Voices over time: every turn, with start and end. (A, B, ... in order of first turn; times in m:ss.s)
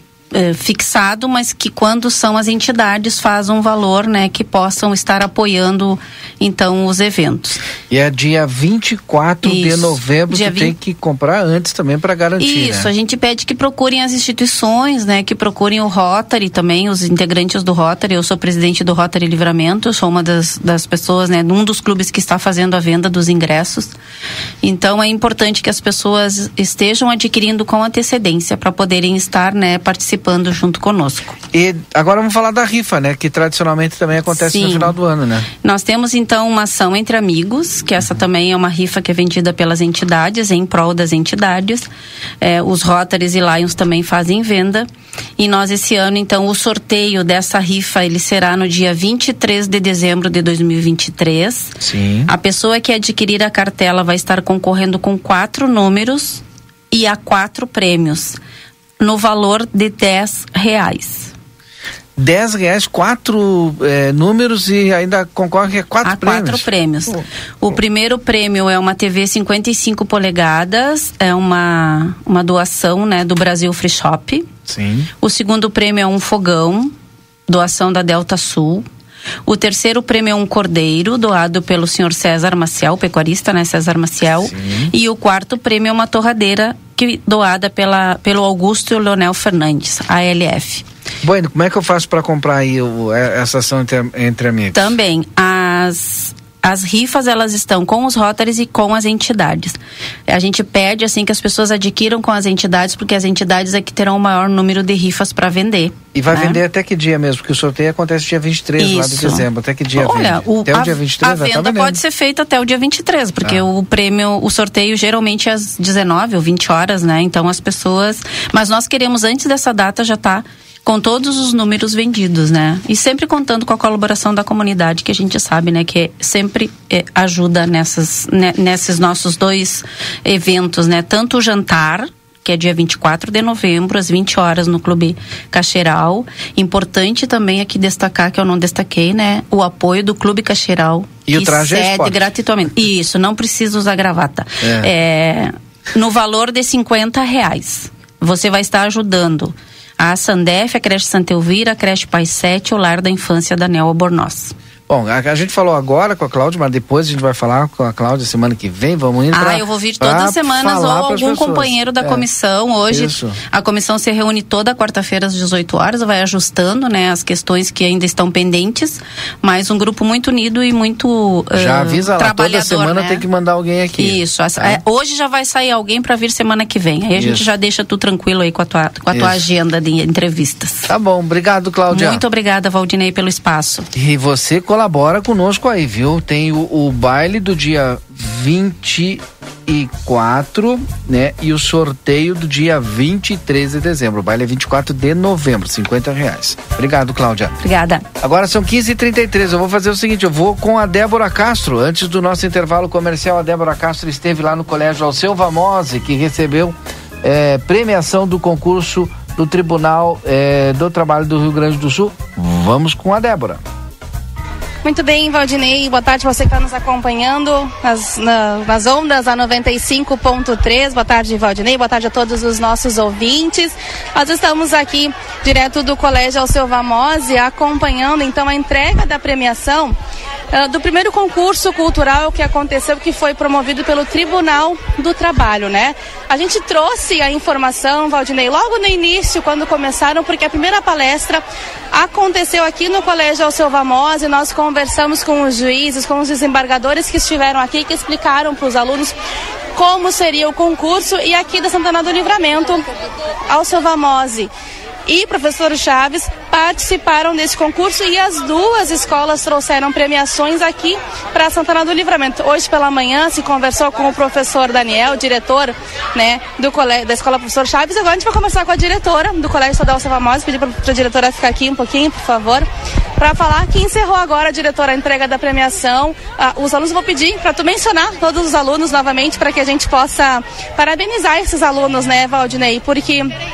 0:00.3-0:07.6 A
0:07.9-0:12.9 B
0:09.4-0:10.7 A
0:12.4-0:23.9 A
0:24.6-0:31.4 A
0:31.5-0:35.5 B
0:34.3-0:34.9 A
0:35.6-0:41.9 A
0:42.4-0:51.7 A
0:51.8-0:52.3 B
0:52.3-0:58.4 A
0:59.0-1:01.3 A
1:02.2-1:06.7 B
1:06.0-1:14.5 A
1:14.7-1:15.1 B
1:15.2-1:16.9 A
1:17.5-1:18.8 A
1:19.5-1:30.8 A
1:24.4-1:24.9 B
1:31.2-1:34.9 B
1:34.7-1:46.6 A
1:46.1-1:52.0 B
1:48.8-2:34.5 A
2:21.2-2:22.3 B
2:24.6-2:24.9 B
2:34.9-2:42.2 B
2:39.3-2:53.2 A
2:42.9-2:43.4 B
2:51.6-2:54.8 B
2:54.0-3:00.9 A
2:57.2-2:57.4 B
2:59.1-2:59.4 B
3:00.9-3:02.2 B
3:01.9-3:03.9 A
3:03.9-3:17.6 B
3:17.6-3:18.0 A
3:18.2-3:33.6 B
3:34.8-3:50.0 C
3:50.5-4:09.2 C
4:09.7-4:12.8 C
4:13.5-4:14.5 C
4:15.1-4:32.7 C
4:33.2-4:43.3 C